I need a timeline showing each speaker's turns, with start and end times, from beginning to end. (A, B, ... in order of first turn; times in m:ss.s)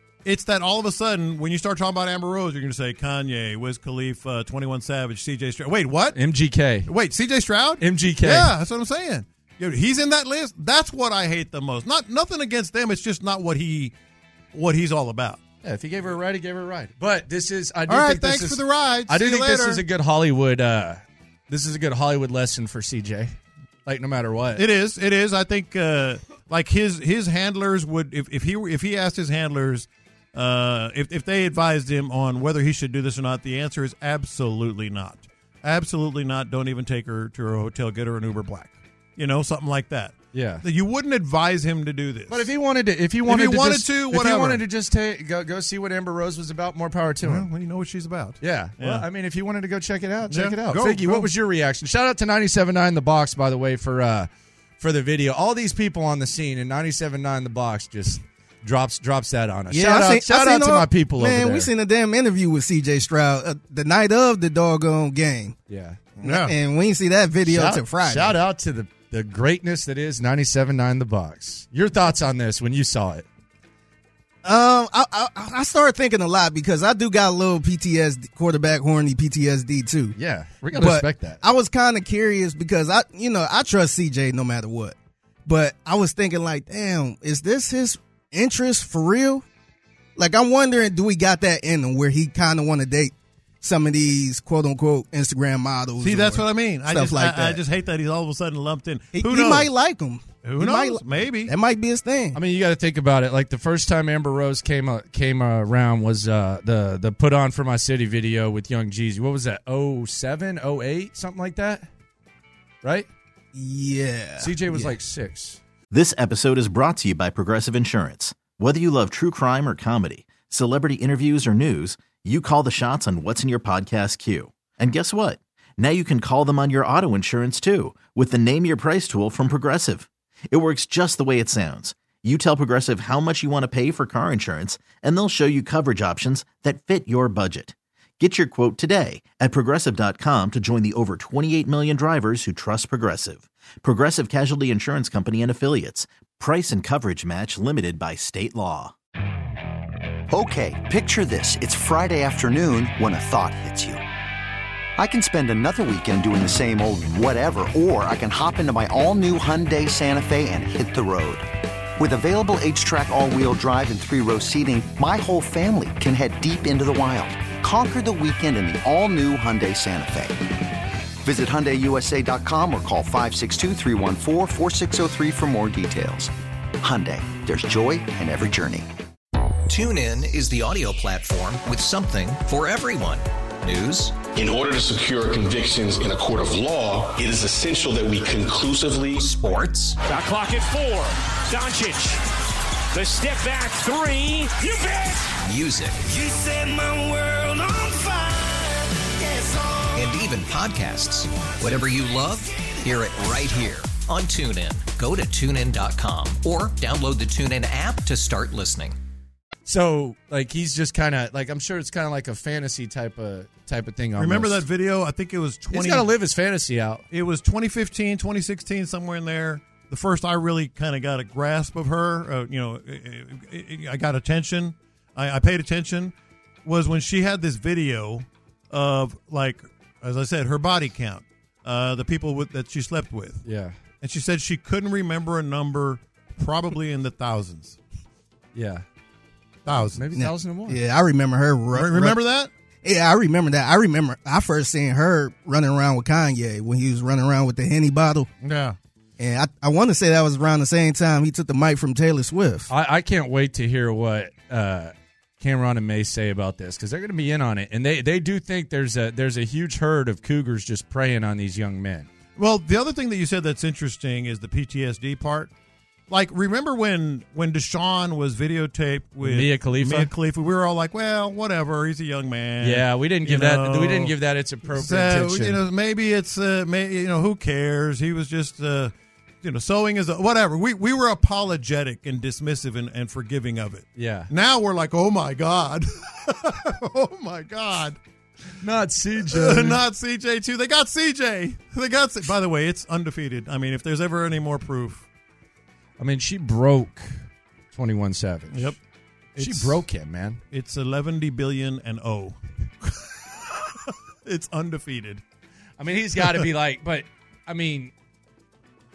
0:00.2-0:06.2 A
0:06.1-0:06.9 B
0:06.8-0:13.9 A
0:07.8-0:08.5 B
0:14.5-0:15.4 A
0:15.6-0:24.6 B
0:17.9-0:19.8 A
0:24.6-0:42.5 A
0:40.3-0:40.6 B
0:42.3-0:47.5 B
0:43.2-0:44.6 A
0:47.2-0:49.1 A
0:48.4-1:01.7 B
0:50.3-0:51.3 A
0:59.7-1:05.6 C
1:05.7-1:06.0 B
1:06.2-1:06.5 A
1:06.2-1:08.4 C
1:07.4-1:13.3 B
1:14.4-1:20.2 C
1:20.2-1:21.4 B
1:20.7-1:29.4 C
1:30.2-1:37.6 C
1:36.0-1:39.7 A
1:39.1-1:42.4 C
1:40.4-1:41.5 A
1:42.3-1:51.9 B
1:52.8-1:53.1 B
1:53.5-1:54.9 C
1:54.4-1:55.6 B
1:55.9-2:28.9 D
2:30.3-2:34.0 E
2:35.0-2:41.5 E
2:42.0-2:50.4 E
2:51.2-2:58.9 E
2:59.7-3:04.2 F
3:04.3-3:09.3 G
3:09.2-3:10.0 F
3:10.0-3:12.2 H
3:12.9-3:15.3 H
3:15.4-3:16.2 F
3:16.2-3:19.9 H
3:20.0-3:29.0 F
3:29.6-3:34.6 B
3:34.2-3:36.1 A
3:35.7-3:37.0 B
3:37.1-3:53.4 A
3:53.4-3:53.8 B
3:54.0-3:57.8 A
3:58.5-3:58.8 B
3:59.7-4:00.0 A
3:59.7-4:00.8 B
4:00.2-4:02.2 C
4:01.7-4:02.5 A
4:02.8-4:08.3 C
4:08.4-4:08.8 A
4:09.2-4:12.7 C
4:12.7-4:22.1 B
4:22.4-4:25.5 A
4:26.1-4:34.2 A
4:29.2-4:30.1 B
4:32.6-4:35.6 B
4:34.7-4:48.0 A
4:44.0-4:44.3 B
4:48.6-4:49.8 B
4:49.2-4:55.1 A
4:56.0-4:58.8 B
4:58.5-4:58.8 A
4:59.4-4:59.8 A
4:59.4-5:00.4 B
5:00.5-5:05.2 A
5:05.8-5:07.9 B